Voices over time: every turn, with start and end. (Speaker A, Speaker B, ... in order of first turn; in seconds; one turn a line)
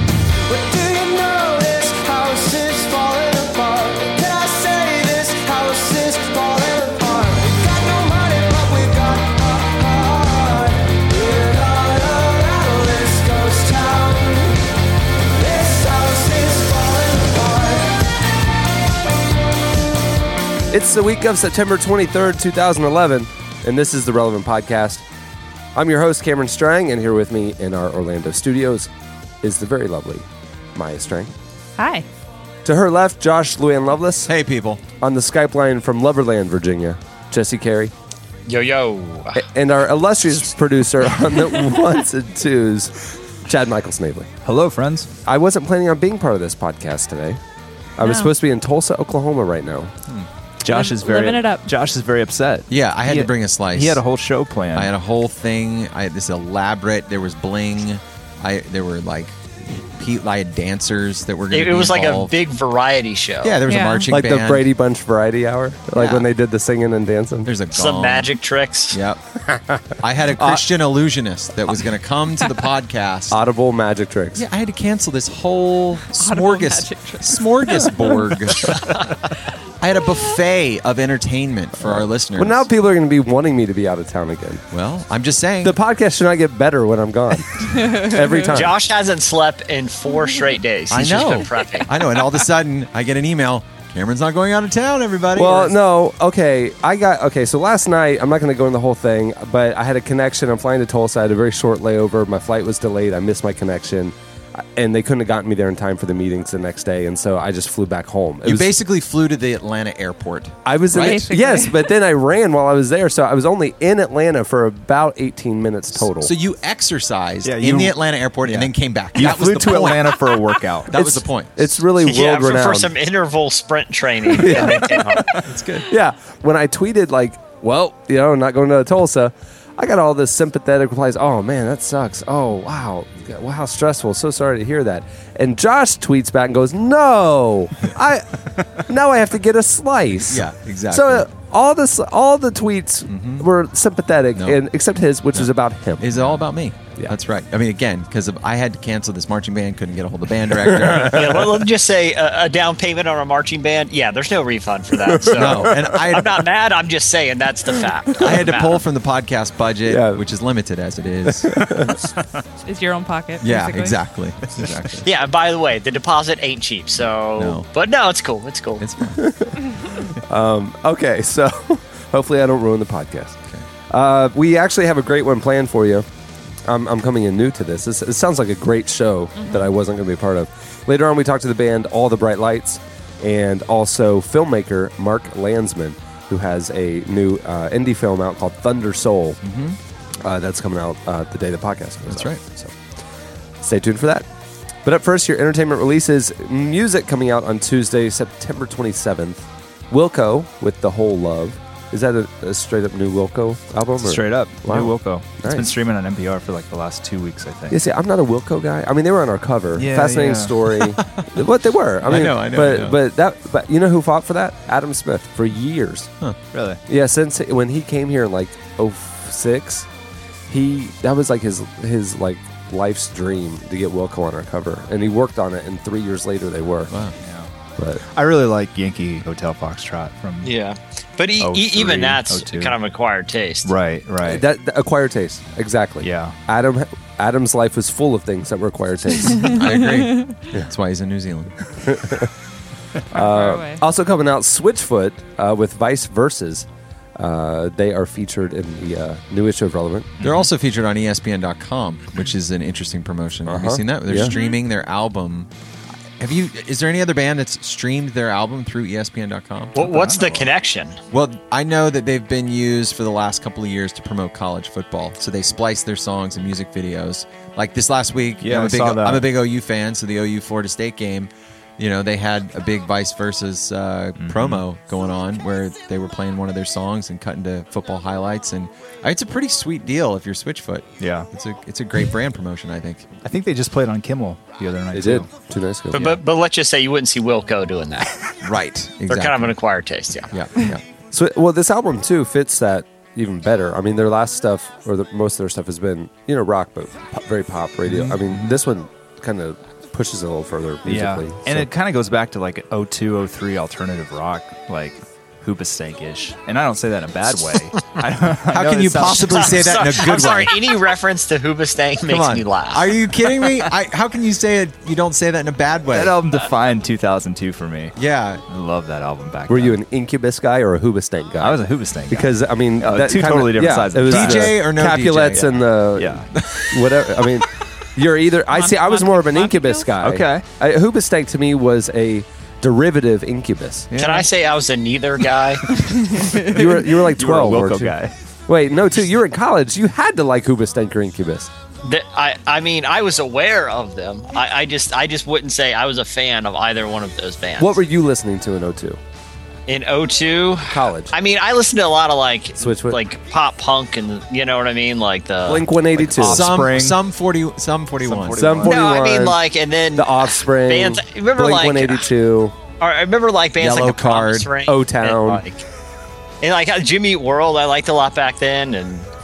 Speaker A: 0.5-14.5
Speaker A: 15.4-17.9
Speaker B: 20.7-25.0
Speaker B: 25.7-28.9
Speaker B: 29.4-31.3
Speaker C: 31.8-32.0
Speaker B: 32.6-34.3
Speaker D: 34.2-34.8
Speaker B: 35.0-37.9
Speaker E: 38.5-39.4
Speaker B: 39.3-44.3
Speaker F: 44.4-45.1
Speaker B: 45.2-47.4
Speaker B: 48.0-49.9
Speaker C: 48.0-48.3
Speaker F: 50.6-54.9
Speaker C: 50.7-51.7
Speaker D: 52.7-54.0
Speaker D: 54.7-59.4
Speaker D: 59.9-62.3
Speaker E: 61.5-63.6
Speaker D: 63.4-64.6
Speaker C: 63.6-64.1
Speaker B: 64.1-67.5
Speaker D: 67.4-68.3
Speaker E: 67.7-69.0
Speaker D: 68.9-69.2
Speaker B: 69.4-70.6
Speaker D: 70.0-73.4
Speaker B: 73.3-74.4
Speaker D: 74.3-79.1
Speaker C: 76.1-78.4
Speaker D: 79.8-82.7
Speaker B: 81.8-84.6
Speaker D: 84.7-85.8
Speaker B: 85.6-88.8
Speaker C: 87.6-88.5
Speaker E: 88.5-91.9
Speaker D: 90.9-95.8
Speaker B: 95.3-108.8
Speaker D: 108.4-111.3
Speaker B: 110.6-116.3
Speaker C: 111.0-111.8
Speaker D: 116.1-120.3
Speaker F: 117.4-120.9
Speaker D: 120.9-121.7
Speaker B: 120.9-122.9
Speaker E: 122.0-125.3
Speaker B: 124.3-125.2
Speaker D: 125.4-125.9
Speaker B: 125.8-146.4
Speaker D: 140.2-141.2
Speaker D: 143.1-143.5
Speaker D: 145.3-151.5
Speaker B: 150.7-151.2
Speaker E: 151.0-158.8
Speaker B: 154.9-156.0
Speaker D: 155.3-156.5
Speaker D: 158.2-161.7
Speaker B: 159.8-160.2
Speaker B: 161.2-162.0
Speaker C: 162.7-164.0
Speaker D: 163.4-165.1
Speaker E: 165.0-168.8
Speaker D: 167.4-167.7
Speaker D: 168.8-169.3
Speaker B: 169.2-169.6
Speaker B: 170.2-173.4
Speaker B: 173.9-176.1
Speaker B: 176.7-189.4
Speaker C: 179.4-179.7
Speaker D: 189.4-189.8
Speaker B: 190.2-192.8
Speaker D: 192.1-192.4
Speaker B: 193.6-194.3
Speaker B: 194.8-205.7
Speaker F: 204.0-207.8
Speaker B: 207.7-216.1
Speaker F: 209.8-210.6
Speaker D: 210.8-211.2
Speaker D: 212.0-212.9
Speaker F: 216.5-216.8
Speaker B: 216.9-219.9
Speaker B: 220.5-226.9
Speaker D: 226.9-227.2
Speaker F: 227.2-227.5
Speaker F: 228.1-230.5
Speaker E: 230.4-233.7
Speaker F: 231.4-232.8
Speaker F: 233.7-234.4
Speaker B: 234.2-239.6
Speaker F: 236.0-236.3
Speaker C: 239.3-240.3
Speaker D: 239.4-241.6
Speaker B: 241.8-242.3
Speaker C: 243.1-243.8
Speaker B: 243.1-250.1
Speaker D: 250.2-255.5
Speaker B: 253.4-254.3
Speaker C: 254.3-254.5
Speaker D: 256.2-259.8
Speaker E: 259.8-261.0
Speaker F: 259.8-260.5
Speaker D: 261.1-283.1
Speaker F: 268.4-269.3
Speaker F: 274.2-274.6
Speaker F: 281.0-281.3
Speaker F: 283.2-285.3
Speaker B: 284.9-286.1
Speaker E: 285.9-288.1
Speaker D: 288.4-289.5
Speaker E: 289.1-290.3
Speaker D: 290.3-290.8
Speaker B: 291.1-301.7
Speaker D: 297.9-298.5
Speaker F: 300.9-309.8
Speaker D: 308.5-310.8
Speaker E: 309.1-313.0
Speaker D: 312.1-316.2
Speaker F: 315.9-318.0
Speaker D: 318.0-318.4
Speaker F: 318.5-319.8
Speaker B: 319.5-333.9
Speaker F: 321.4-324.7
Speaker D: 324.1-325.5
Speaker F: 325.2-326.3
Speaker D: 326.4-326.6
Speaker C: 328.5-329.9
Speaker F: 330.0-330.4
Speaker D: 333.9-334.3
Speaker E: 334.0-335.6
Speaker F: 335.7-338.1
Speaker C: 336.0-336.5
Speaker B: 336.4-341.5
Speaker E: 341.8-347.8
Speaker B: 347.6-349.0
Speaker E: 349.7-355.7
Speaker B: 350.6-351.1
Speaker B: 352.6-353.0
Speaker B: 355.5-356.4
Speaker F: 356.0-357.0
Speaker D: 356.2-358.5
Speaker F: 358.0-358.8
Speaker B: 358.4-359.4
Speaker E: 358.6-362.1
Speaker B: 359.9-362.6
Speaker E: 362.8-365.6
Speaker D: 363.6-364.5
Speaker B: 364.6-365.4
Speaker E: 366.4-369.1